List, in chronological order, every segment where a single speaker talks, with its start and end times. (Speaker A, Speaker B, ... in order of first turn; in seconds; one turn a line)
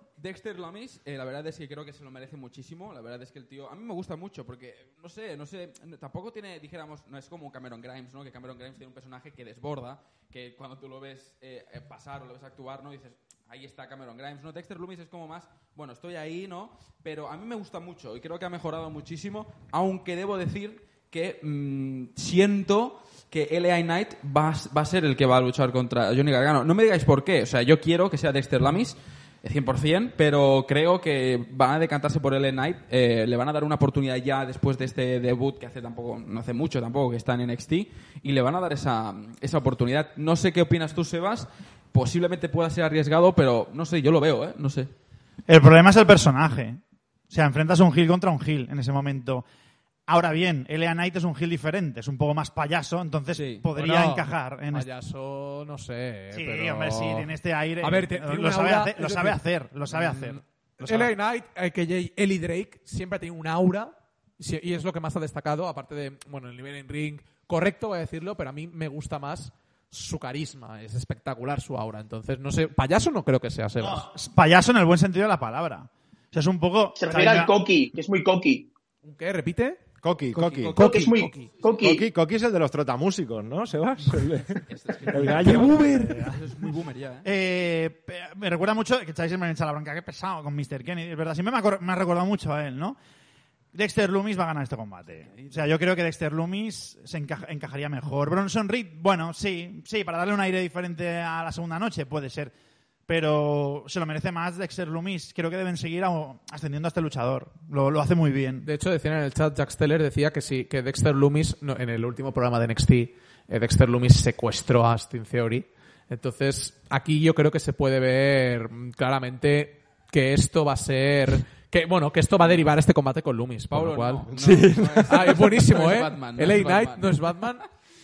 Speaker A: 0.2-44.9
Speaker B: 45.5-46.8
Speaker B: 47.3-49.5
Speaker B: 50.1-54.9
Speaker A: 53.3-53.7
Speaker C: 53.8-57.3
Speaker B: 56.3-61.1
Speaker C: 57.8-59.4
Speaker C: 59.9-74.0
Speaker B: 73.8-77.5
Speaker D: 77.0-78.7
Speaker C: 79.0-79.8
Speaker E: 80.0-80.8
Speaker A: 80.3-81.2
Speaker C: 80.8-81.5
Speaker D: 80.8-82.1
Speaker E: 81.8-85.9
Speaker A: 84.6-87.3
Speaker C: 85.3-86.3
Speaker B: 85.8-86.4
Speaker B: 87.2-93.0
Speaker B: 93.7-102.5
Speaker A: 95.2-95.6
Speaker B: 103.1-108.7
Speaker C: 108.6-124.3
Speaker A: 123.7-127.4
Speaker E: 124.3-125.5
Speaker C: 125.0-127.7